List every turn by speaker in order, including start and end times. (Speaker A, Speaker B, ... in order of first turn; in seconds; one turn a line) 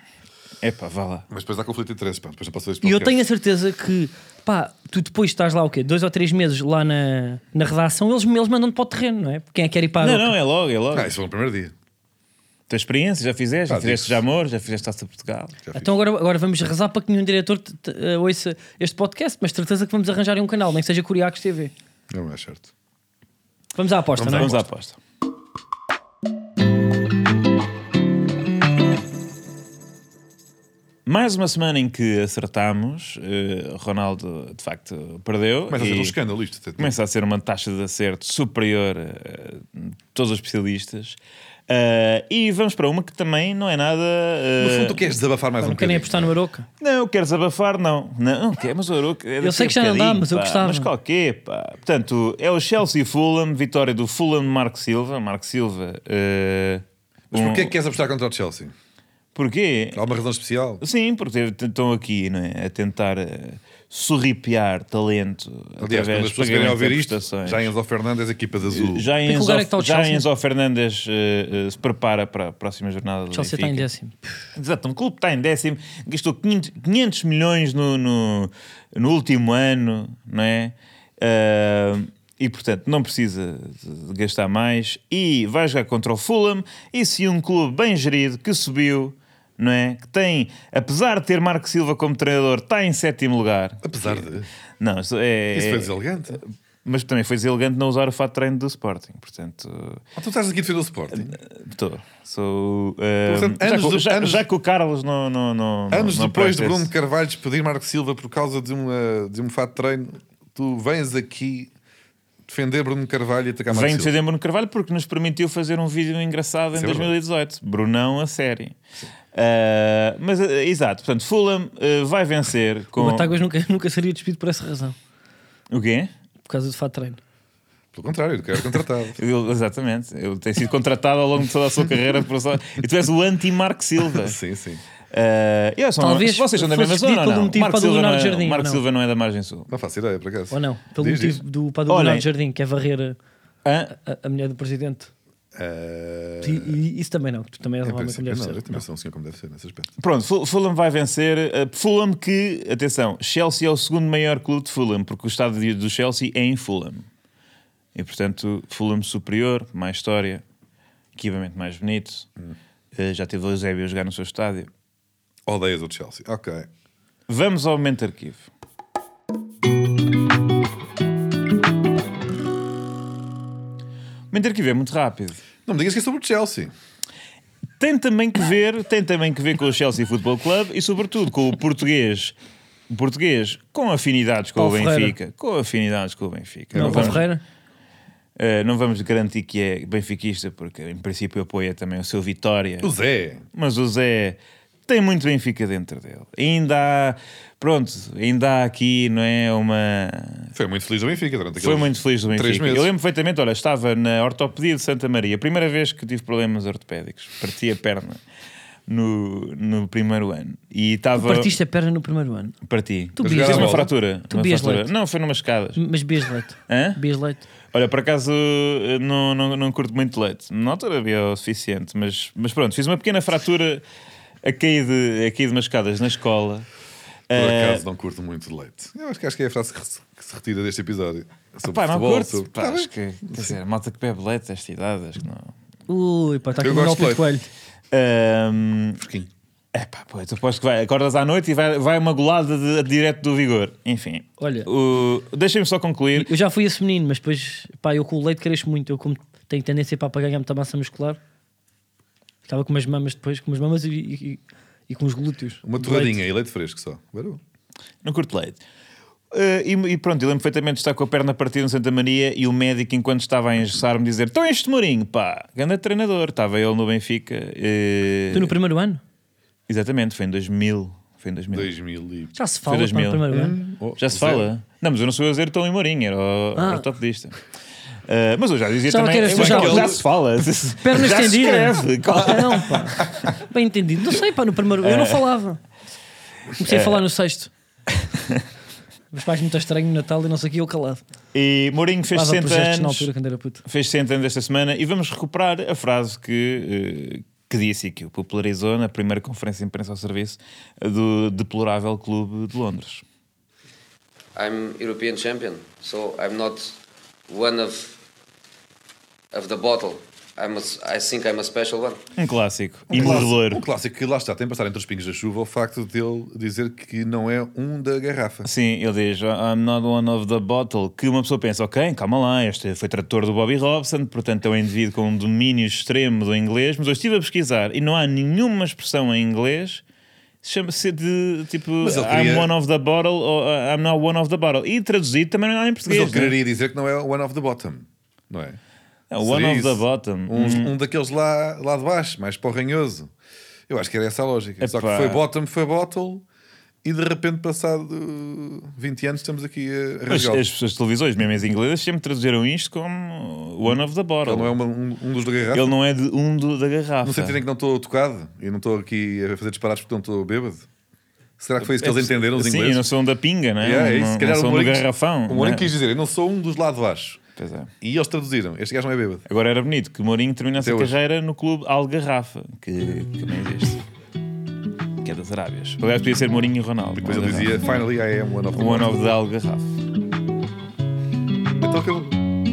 Speaker A: 0.6-1.2
Speaker B: 1.3-3.2
Speaker C: 2.8-10.3
Speaker A: 10.0-11.1
Speaker B: 10.9-11.7
Speaker A: 12.7-15.6
Speaker B: 13.7-14.2
Speaker B: 15.7-15.9
Speaker C: 15.7-21.7
Speaker B: 22.1-22.7
Speaker C: 23.7-24.5
Speaker B: 24.2-24.6
Speaker A: 24.2-25.0
Speaker A: 31.1-36.1
Speaker B: 35.7-37.0
Speaker A: 36.8-41.2
Speaker A: 41.7-45.1
Speaker B: 44.6-46.3
Speaker C: 45.6-46.7
Speaker A: 46.8-57.7
Speaker C: 49.4-50.9
Speaker B: 57.3-58.7
Speaker A: 59.4-60.0
Speaker B: 59.9-60.8
Speaker A: 60.8-67.7
Speaker B: 65.8-69.1
Speaker A: 68.7-73.9
Speaker C: 69.3-70.2
Speaker C: 73.3-74.4
Speaker A: 74.6-94.3
Speaker B: 93.8-94.5
Speaker A: 94.8-100.0
Speaker B: 95.5-96.4
Speaker B: 100.2-101.4
Speaker A: 101.2-106.9
Speaker B: 103.3-104.4
Speaker B: 105.9-111.7
Speaker B: 112.5-114.1
Speaker A: 113.7-118.8
Speaker B: 116.7-117.1
Speaker A: 119.3-123.3
Speaker C: 123.0-125.0
Speaker A: 125.7-126.1
Speaker C: 126.5-127.2
Speaker B: 127.9-129.2
Speaker A: 129.2-134.4
Speaker B: 134.1-134.8
Speaker A: 135.1-139.7
Speaker C: 136.0-138.8
Speaker B: 139.7-141.4
Speaker C: 140.5-143.2
Speaker A: 141.9-142.2
Speaker A: 143.6-143.9
Speaker C: 143.9-145.1
Speaker B: 145.6-146.8
Speaker C: 146.4-148.8
Speaker B: 147.8-149.9
Speaker A: 150.0-157.1
Speaker A: 157.9-160.4
Speaker A: 161.1-162.3
Speaker A: 162.9-164.7
Speaker B: 165.5-166.7
Speaker A: 167.3-168.5
Speaker A: 174.3-175.4
Speaker B: 175.6-176.7
Speaker A: 177.8-182.3
Speaker A: 182.9-187.3
Speaker C: 184.6-185.1
Speaker B: 186.7-187.2
Speaker C: 186.7-187.4
Speaker A: 188.4-192.9
Speaker B: 192.8-193.4
Speaker A: 193.6-200.5
Speaker B: 200.6-202.9
Speaker A: 201.6-208.2
Speaker A: 208.9-211.5
Speaker C: 211.2-212.6
Speaker A: 212.7-215.8
Speaker C: 213.2-214.9
Speaker B: 213.2-213.9
Speaker C: 215.8-217.4
Speaker A: 216.7-217.0
Speaker A: 217.7-223.8
Speaker A: 224.4-226.7
Speaker A: 227.3-227.8
Speaker B: 227.3-233.6
Speaker A: 231.6-235.5
Speaker C: 235.9-237.5
Speaker B: 236.6-237.3
Speaker A: 237.9-239.0
Speaker B: 239.0-239.3
Speaker A: 239.7-246.3
Speaker C: 244.4-244.7
Speaker C: 246.2-251.2
Speaker C: 252.5-256.2
Speaker B: 255.6-257.4
Speaker A: 258.0-258.6
Speaker A: 259.3-268.5
Speaker C: 268.3-269.0
Speaker A: 269.7-271.7
Speaker B: 271.5-272.4
Speaker C: 272.4-273.6
Speaker A: 272.7-273.4
Speaker B: 273.3-274.5
Speaker A: 274.0-277.4
Speaker C: 276.6-276.8
Speaker A: 278.1-283.0
Speaker C: 278.9-279.9
Speaker B: 279.3-280.0
Speaker C: 280.8-285.6
Speaker A: 284.8-285.3
Speaker C: 286.6-287.5
Speaker A: 286.6-287.0
Speaker C: 289.1-291.0
Speaker A: 291.3-293.1
Speaker C: 292.1-293.6
Speaker A: 293.6-303.0
Speaker D: 304.4-307.9
Speaker D: 309.3-312.0
Speaker A: 312.2-313.6
Speaker B: 312.9-318.5
Speaker A: 318.4-329.8
Speaker A: 330.4-336.4
Speaker B: 331.8-332.5
Speaker B: 335.9-338.6
Speaker A: 339.1-340.7
Speaker B: 339.2-343.1
Speaker B: 343.7-346.2
Speaker A: 344.6-345.2
Speaker B: 346.8-350.4
Speaker A: 350.1-354.5
Speaker B: 354.2-355.7
Speaker A: 355.5-357.4
Speaker B: 357.0-360.7
Speaker B: 361.4-362.8
Speaker A: 361.7-365.7
Speaker B: 363.6-367.2
Speaker A: 367.4-367.7
Speaker B: 367.8-369.2
Speaker A: 369.3-373.8
Speaker B: 370.6-370.9
Speaker A: 375.0-377.9
Speaker B: 376.9-379.1
Speaker A: 378.5-379.7
Speaker B: 381.6-382.2